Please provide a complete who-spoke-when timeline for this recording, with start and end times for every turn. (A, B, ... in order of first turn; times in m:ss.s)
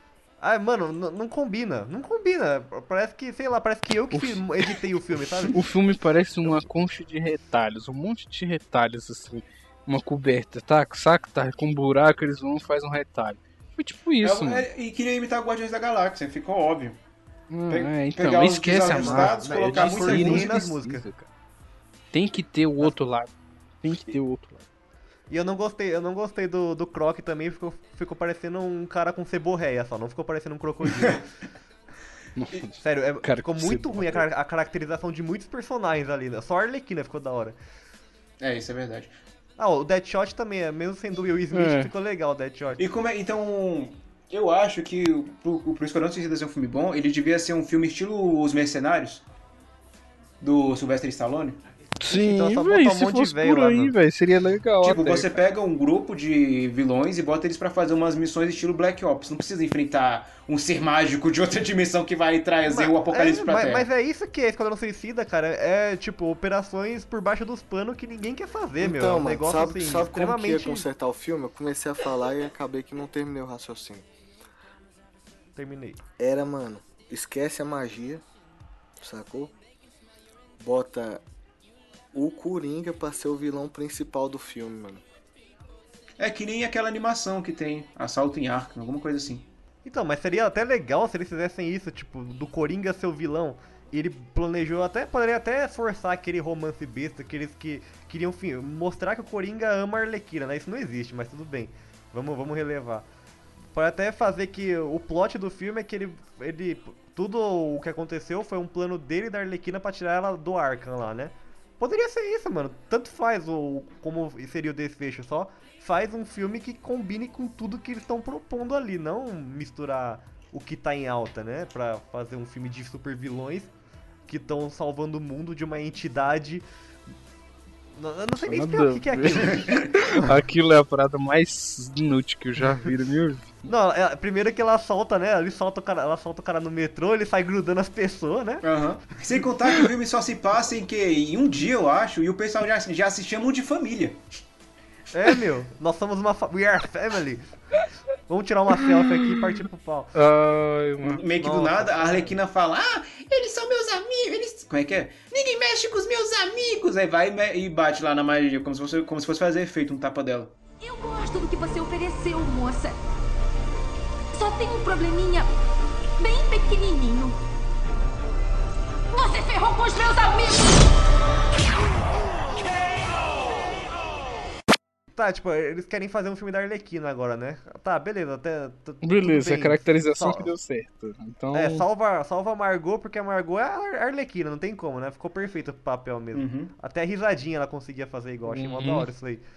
0:00.4-0:05.5 A
0:04.1-0:04.4 B
0:05.5-0:14.6 B
0:14.2-0:17.0 C
0:17.5-0:21.3 B
0:17.7-0:20.7 C
0:18.9-0:21.1 A
0:22.1-0:23.3 B
0:23.8-0:24.6 B
0:25.3-0:31.2 A
0:30.9-0:31.2 C
0:32.4-0:34.2 B
0:32.8-0:37.6 A
0:38.4-0:39.1 C
0:39.6-0:42.8 A
0:41.5-0:41.9 B
0:42.8-0:49.2 C
0:50.4-0:51.6 C
0:52.0-0:55.3 B
0:52.1-0:53.9 A
0:54.8-1:03.9 C
1:02.6-1:10.8 A
1:08.8-1:14.0 D
1:15.6-1:16.0 A
1:16.2-1:18.2 D
1:19.0-1:19.5 D
1:20.6-1:21.2 D
1:22.1-1:25.0 D
1:26.2-1:29.5 C
1:29.8-1:43.0 A
1:43.7-2:03.7 A
2:04.3-2:06.6 A
2:08.0-2:10.3 A
2:08.4-2:13.5 B
2:09.5-2:09.8 C
2:13.7-2:18.6 A
2:18.6-2:24.2 C
2:25.1-2:27.5 A
2:28.3-2:30.1 A
2:30.1-2:31.2 B
2:31.0-2:40.5 C
2:31.4-2:32.4 A
2:40.8-2:42.9 E
2:44.3-2:45.5 E
2:46.2-2:47.4 E
2:49.1-2:50.8 E
2:55.1-3:00.5 A
2:59.0-3:01.8 B
3:01.5-3:09.4 A
3:06.3-3:06.7 C
3:08.4-3:09.1 B